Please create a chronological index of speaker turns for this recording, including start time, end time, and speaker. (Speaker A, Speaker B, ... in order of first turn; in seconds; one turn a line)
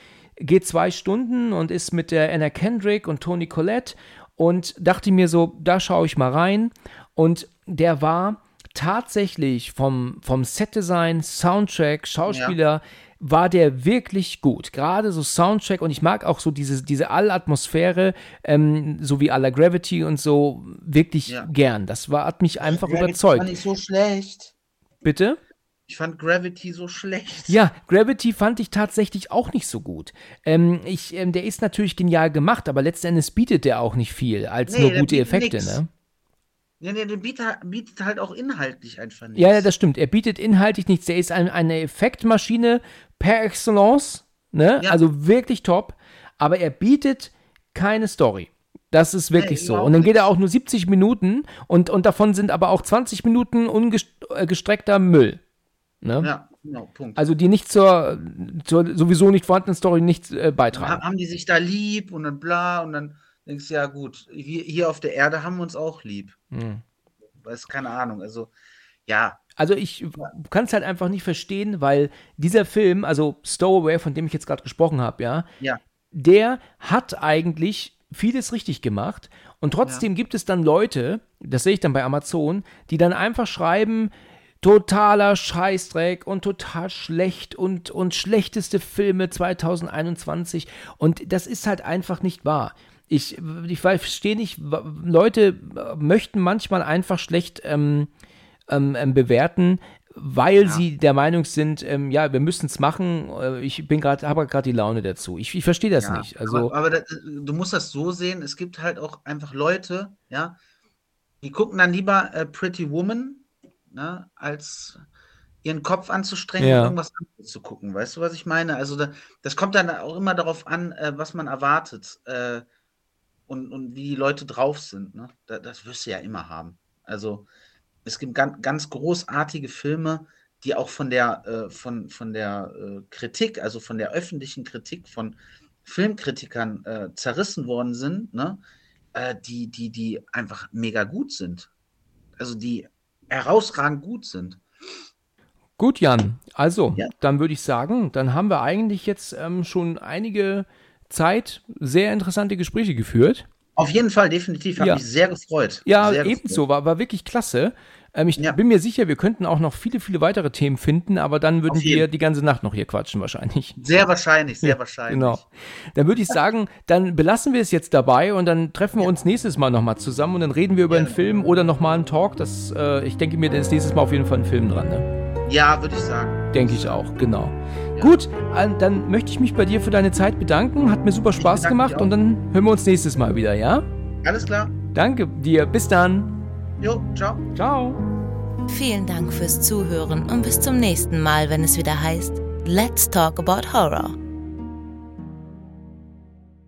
Speaker A: 0.4-23.5
Speaker B: 12.3-12.6
Speaker B: 22.6-24.5
Speaker A: 25.0-25.4
Speaker B: 25.9-27.6
Speaker A: 27.5-35.9
Speaker B: 34.7-35.8
Speaker B: 36.8-39.7
Speaker A: 39.3-55.4
Speaker B: 49.4-50.3
Speaker A: 56.0-56.3
Speaker B: 56.2-57.2
Speaker A: 57.1-61.0
Speaker B: 60.7-66.4
Speaker A: 66.5-66.8
Speaker B: 67.4-68.5
Speaker B: 69.0-69.4
Speaker A: 69.6-75.5
Speaker A: 76.1-84.1
Speaker A: 84.6-98.1
Speaker A: 98.7-106.7
Speaker B: 106.0-110.6
Speaker B: 111.4-115.0
Speaker B: 115.6-122.6
Speaker A: 116.6-117.0
Speaker B: 123.5-127.5
Speaker B: 128.1-138.6
Speaker B: 139.1-141.7
Speaker B: 142.4-144.6
Speaker A: 145.8-153.4
Speaker B: 153.8-156.6
Speaker A: 154.8-155.0
Speaker A: 155.8-163.8
Speaker B: 161.7-162.1
Speaker B: 163.8-165.4
Speaker A: 164.6-175.1
Speaker B: 170.9-171.2
Speaker B: 175.4-177.0
Speaker A: 176.5-183.8
Speaker B: 181.4-182.1
Speaker B: 184.2-184.7
Speaker A: 184.9-186.3
Speaker B: 186.8-187.4
Speaker A: 187.5-188.0
Speaker C: 188.7-194.2